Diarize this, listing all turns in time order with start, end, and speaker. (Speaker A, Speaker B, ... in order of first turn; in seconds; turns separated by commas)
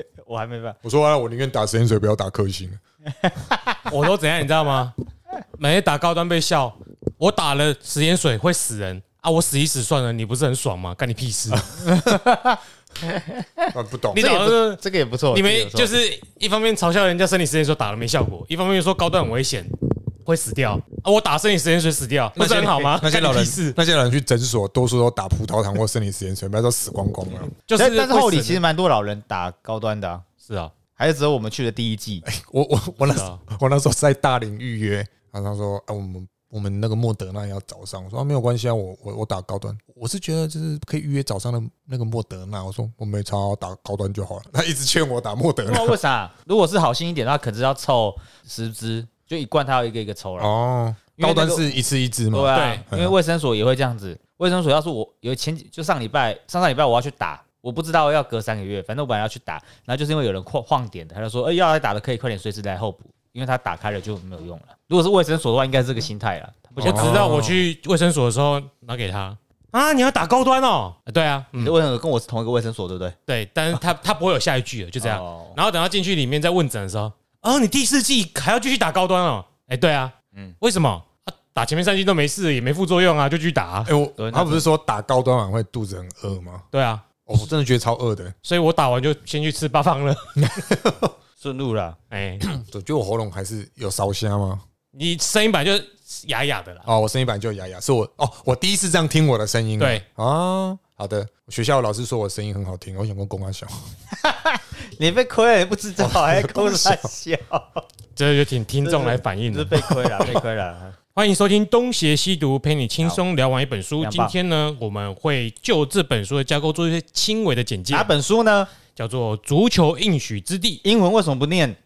Speaker A: 0.2-0.8, Speaker B: 0.8-2.8, Speaker A: 3.2-3.9, Speaker C: 3.9-5.0, Speaker C: 5.6-11.7, Speaker A: 11.8-15.9, Speaker B: 13.7-14.2, Speaker C: 14.1-14.8, Speaker C: 15.3-23.8, Speaker B: 22.4-27.5, Speaker C: 27.7-28.6, Speaker A: 27.8-30.3, Speaker C: 30.5-30.7, Speaker A: 31.0-32.2, Speaker B: 32.2-46.0, Speaker C: 33.1-33.4, Speaker A: 45.7-50.5, Speaker B: 50.4-53.1, Speaker A: 51.2-67.3, Speaker C: 52.5-52.8, Speaker C: 66.8-71.7, Speaker B: 66.8-67.6, Speaker A: 71.6-73.2, Speaker C: 73.3-83.9, Speaker A: 75.0-75.6, Speaker B: 83.9-86.6, Speaker A: 84.2-84.7, Speaker C: 86.7-87.0, Speaker B: 87.3-88.3, Speaker C: 88.5-90.3, Speaker B: 90.4-91.1, Speaker A: 91.4-92.0, Speaker C: 92.1-92.5, Speaker B: 92.4-94.6, Speaker C: 94.9-96.9, Speaker B: 96.9-103.7, Speaker A: 104.1-107.9, Speaker B: 106.0-107.1, Speaker C: 108.2-110.4, Speaker A: 108.8-111.0, Speaker C: 111.2-118.1, Speaker A: 114.0-114.3, Speaker A: 117.9-118.7, Speaker C: 119.0-120.8, Speaker A: 120.8-121.8